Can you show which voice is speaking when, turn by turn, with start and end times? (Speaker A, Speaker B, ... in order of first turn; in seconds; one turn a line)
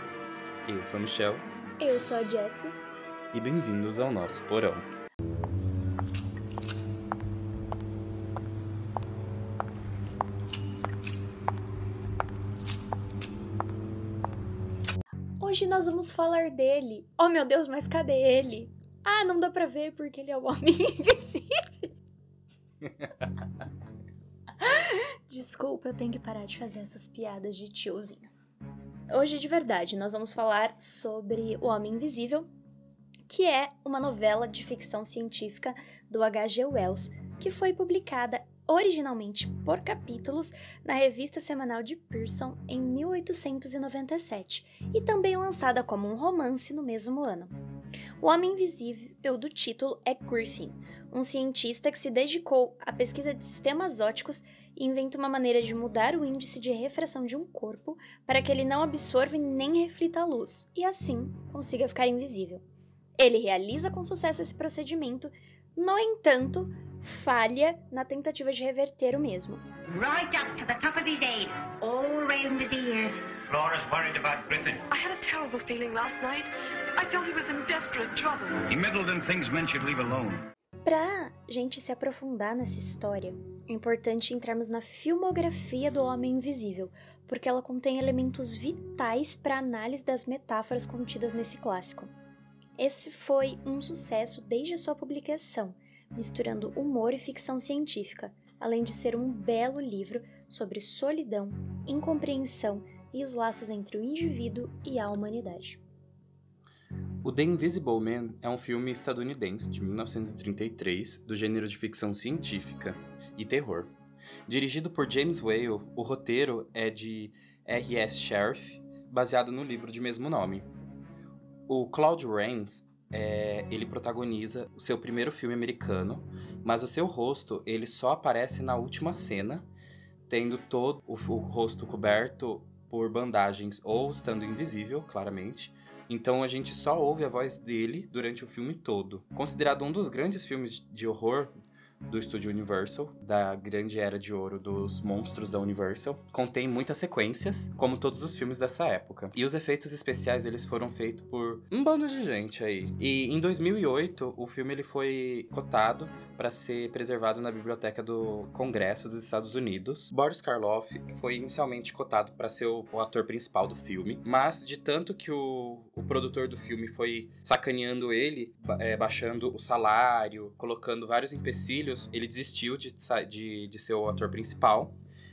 Speaker A: 0.7-1.4
Speaker B: 1.8-2.8
Speaker A: 3.3-4.8
Speaker B: 15.4-21.9
Speaker B: 24.6-28.3
Speaker B: 29.1-32.5
Speaker B: 33.3-47.5
Speaker B: 48.2-62.6
Speaker B: 63.2-69.6
Speaker C: 69.9-73.2
Speaker D: 73.5-74.8
Speaker E: 74.9-78.6
Speaker D: 78.7-80.5
Speaker B: 80.8-92.1
Speaker B: 92.8-105.8
Speaker A: 107.2-113.9
Speaker A: 114.5-120.7
Speaker A: 121.7-129.7
Speaker A: 130.3-141.5
Speaker A: 142.1-174.9